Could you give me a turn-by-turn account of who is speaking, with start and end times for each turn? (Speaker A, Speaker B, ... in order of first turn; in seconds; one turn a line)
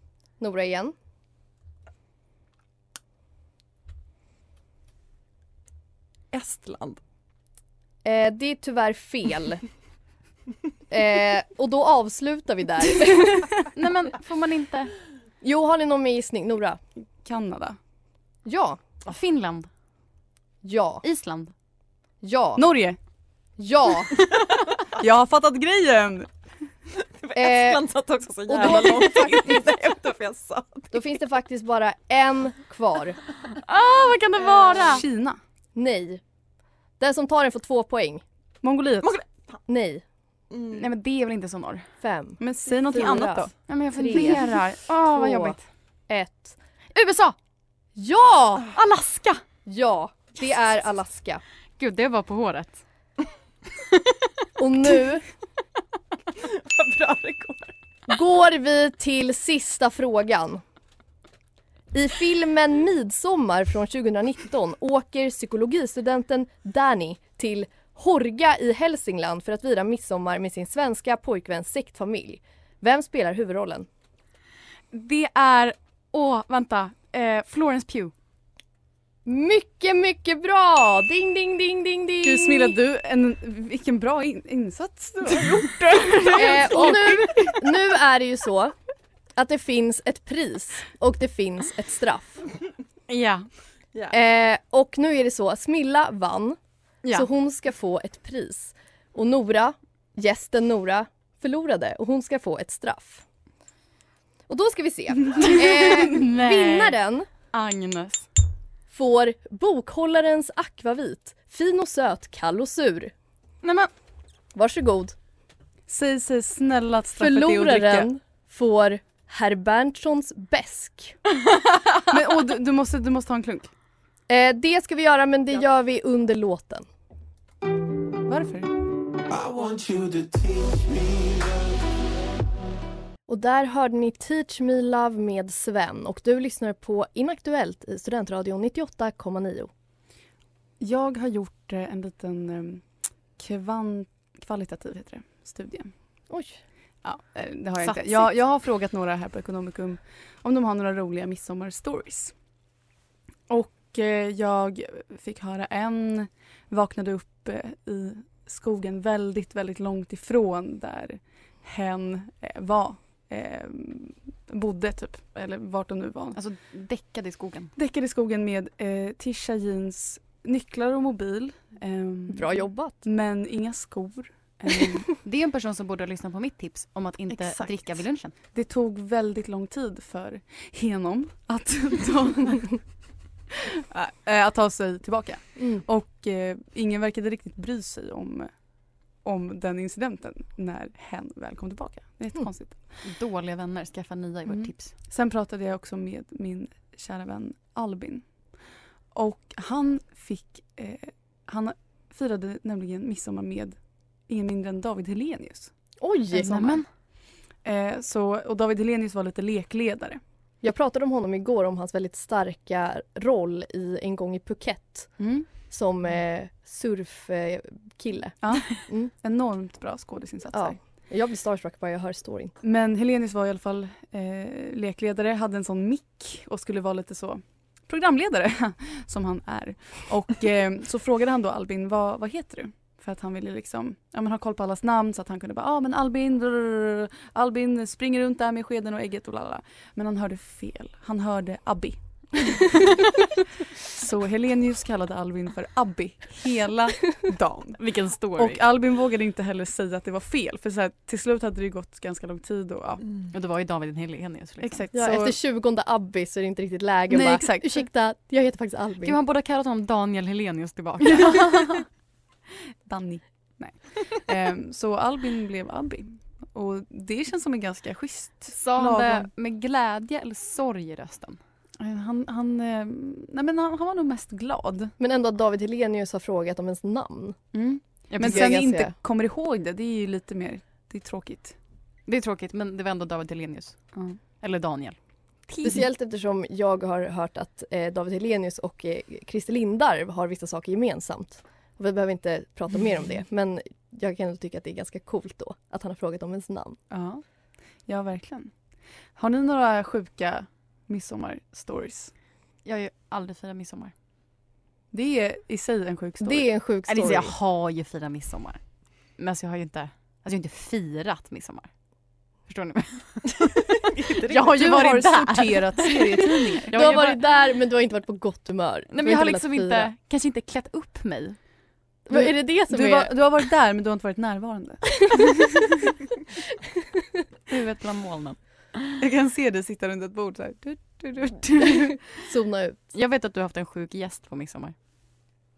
Speaker A: 0.4-0.9
Speaker B: 6.3-7.0
Speaker A: 8.1-9.6
Speaker A: 10.9-13.5
Speaker C: 13.7-14.9
Speaker A: 15.4-16.8
Speaker D: 17.2-17.8
Speaker A: 18.5-18.8
Speaker C: 19.1-19.7
Speaker A: 20.6-21.0
Speaker C: 21.0-21.5
Speaker A: 22.2-22.6
Speaker D: 22.6-23.0
Speaker A: 23.6-24.1
Speaker D: 25.0-26.3
Speaker B: 27.2-31.0
Speaker A: 27.3-27.9
Speaker A: 28.5-29.5
Speaker D: 28.6-29.6
Speaker A: 30.9-33.2
Speaker C: 33.6-35.0
Speaker D: 34.8-35.4
Speaker A: 35.8-36.2
Speaker A: 37.0-38.2
Speaker D: 38.6-39.1
Speaker B: 39.0-39.6
Speaker A: 39.7-40.0
Speaker B: 40.5-40.9
Speaker C: 40.7-41.9
Speaker A: 42.0-43.5
Speaker D: 42.4-43.5
Speaker C: 43.7-45.6
Speaker A: 44.0-44.4
Speaker D: 44.1-44.4
Speaker A: 45.1-45.6
Speaker A: 46.1-46.6
Speaker C: 46.9-47.4
Speaker A: 48.0-48.7
Speaker C: 48.7-49.4
Speaker A: 49.7-51.4
Speaker C: 51.8-52.8
Speaker A: 54.6-55.2
Speaker B: 56.4-57.7
Speaker A: 58.1-60.6
Speaker A: 61.9-73.9
Speaker C: 74.9-78.1
Speaker A: 79.3-82.8
Speaker D: 82.2-87.7
Speaker A: 86.3-88.7
Speaker A: 89.4-92.4
Speaker C: 93.1-93.5
Speaker A: 94.1-96.6
Speaker A: 97.1-103.2
Speaker A: 104.5-107.3
Speaker C: 105.5-107.0
Speaker C: 107.5-108.3
Speaker A: 108.9-113.1
Speaker C: 113.6-113.9
Speaker A: 114.5-115.2
Speaker D: 115.9-118.1
Speaker A: 117.2-121.2
Speaker D: 122.1-123.7
Speaker A: 124.3-126.9
Speaker D: 128.3-128.7
Speaker E: 129.3-131.8
Speaker A: 133.3-139.7
Speaker D: 140.8-142.8
Speaker D: 143.4-145.9
Speaker A: 146.3-146.6
Speaker D: 147.0-152.3
Speaker C: 147.8-148.2
Speaker D: 153.5-166.4
Speaker C: 166.3-167.7
Speaker D: 167.8-175.1
Speaker A: 172.3-173.0
Speaker C: 175.2-178.3
Speaker D: 177.3-177.8
Speaker D: 178.4-182.8
Speaker D: 183.5-188.5
Speaker A: 185.6-185.8
Speaker D: 189.2-192.9
Speaker C: 193.0-194.9
Speaker D: 194.5-198.2
Speaker D: 199.1-203.8
Speaker D: 204.3-205.7
Speaker A: 206.0-206.8
Speaker C: 206.3-206.8
Speaker D: 206.4-206.8
Speaker D: 207.7-210.2
Speaker A: 210.6-215.2
Speaker D: 215.2-215.5
Speaker A: 215.7-219.1
Speaker D: 218.4-220.8
Speaker A: 220.5-222.6
Speaker D: 222.6-243.0
Speaker D: 243.8-247.8
Speaker C: 247.8-248.6
Speaker D: 248.3-253.0
Speaker C: 253.3-254.9
Speaker D: 254.6-255.4
Speaker A: 254.9-259.2
Speaker D: 257.1-257.9
Speaker C: 259.0-261.7
Speaker D: 261.1-261.8
Speaker D: 262.9-269.3
Speaker C: 268.5-271.4
Speaker D: 271.8-274.9
Speaker A: 275.0-277.4
Speaker D: 277.5-281.6
Speaker C: 278.1-278.5
Speaker A: 278.2-278.9
Speaker C: 282.1-283.8
Speaker C: 284.4-285.0
Speaker C: 285.5-285.8
Speaker A: 285.6-296.8
Speaker D: 296.9-297.2
Speaker D: 297.9-298.5
Speaker D: 299.2-302.1
Speaker C: 302.6-303.9
Speaker D: 304.9-306.5
Speaker A: 306.2-307.3
Speaker C: 306.9-308.6
Speaker C: 309.2-311.7
Speaker C: 312.5-313.3
Speaker B: 313.3-314.5
Speaker C: 314.3-315.8
Speaker D: 314.4-316.8
Speaker C: 316.7-317.2
Speaker A: 316.7-319.9
Speaker C: 318.9-321.4
Speaker A: 322.1-323.1
Speaker D: 322.1-325.7
Speaker C: 327.5-328.8
Speaker D: 329.0-332.0
Speaker A: 332.2-332.8
Speaker C: 332.9-334.8